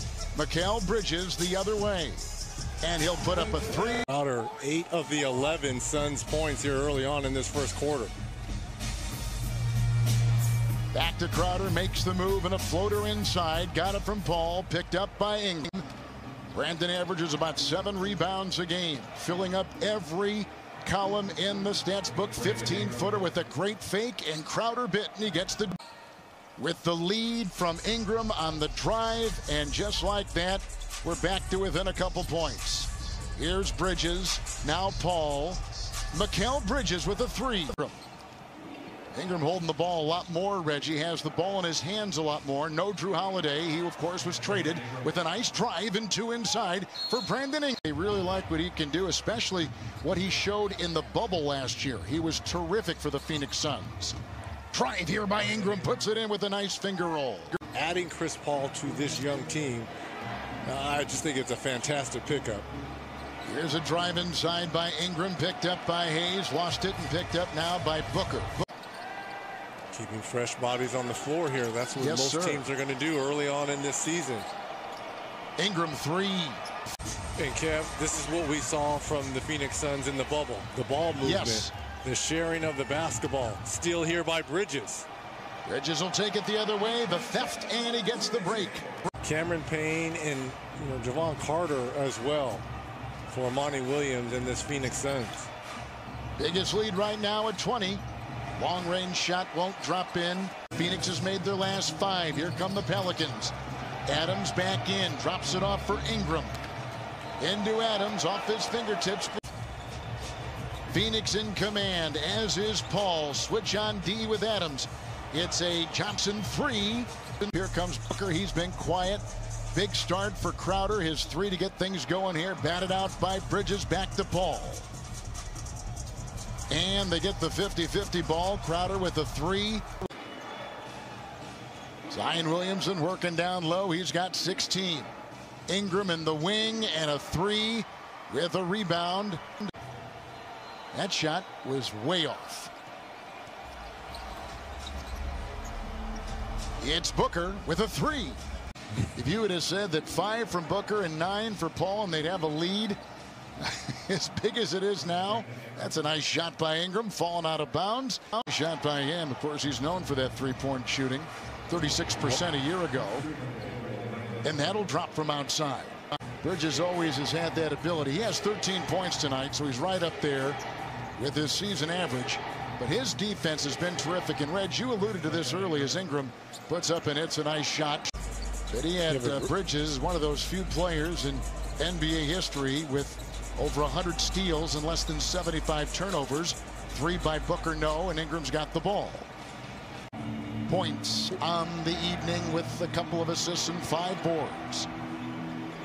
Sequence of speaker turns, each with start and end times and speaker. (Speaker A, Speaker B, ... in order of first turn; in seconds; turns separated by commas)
Speaker A: 0.3-2.3, Speaker A: 2.8-4.0, Speaker B: 4.1-8.1, Speaker A: 10.9-15.8, Speaker A: 16.5-25.8, Speaker A: 26.6-35.6, Speaker A: 36.1-38.0, Speaker A: 39.1-54.1, Speaker A: 54.7-57.6, Speaker B: 57.7-59.9, Speaker B: 60.6-62.7, Speaker A: 63.4-68.5, Speaker B: 69.9-74.5, Speaker A: 72.0-72.7, Speaker A: 75.6-76.6, Speaker B: 77.3-85.1, Speaker A: 81.2-81.7, Speaker A: 85.7-88.9, Speaker B: 89.2-92.6, Speaker B: 93.3-95.5, Speaker A: 96.4-98.0, Speaker A: 98.6-103.5, Speaker A: 104.0-106.5, Speaker A: 107.4-109.4, Speaker A: 110.9-124.8, Speaker A: 126.7-129.9, Speaker A: 132.1-135.1, Speaker A: 135.7-139.5, Speaker A: 140.9-142.7, Speaker A: 146.8-148.4, Speaker A: 149.1-153.0, Speaker A: 153.6-163.3, Speaker A: 164.4-170.6, Speaker A: 171.2-178.1, Speaker A: 178.7-189.3, Speaker B: 179.1-179.5, Speaker A: 190.7-194.9